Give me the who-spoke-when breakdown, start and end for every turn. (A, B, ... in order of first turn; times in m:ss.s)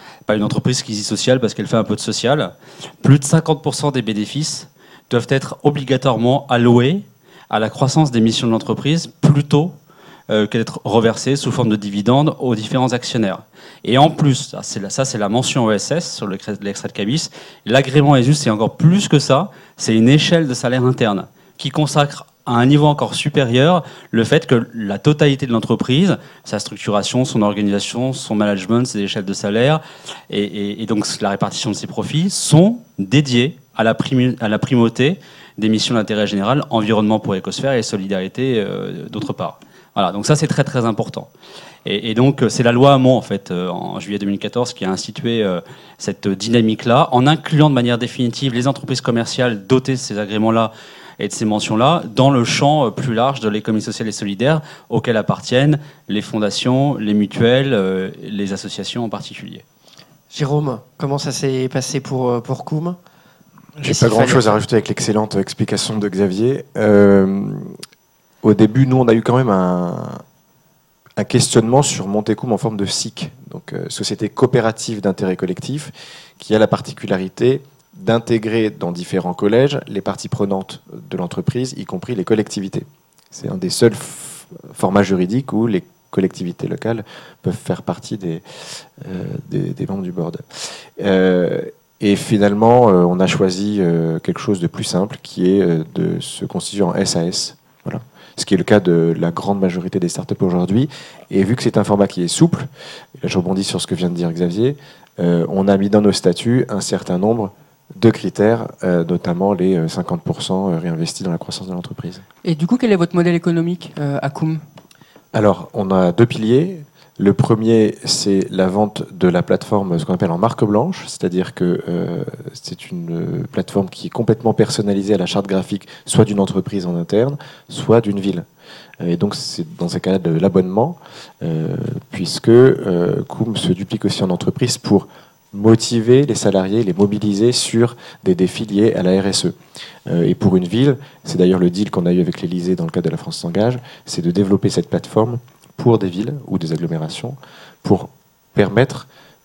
0:00.3-0:09.7 A
0:10.3-0:41.3 A
0:41.8-0:59.6 A
1:00.3-1:03.0 B
1:03.8-1:07.7 C
1:03.9-1:04.6 B
1:08.4-1:10.2 C
1:11.2-1:42.7 C
1:43.2-1:52.2 C
1:52.4-1:54.6 D
1:55.3-2:08.5 C
2:09.0-2:19.6 C
2:20.1-2:29.1 C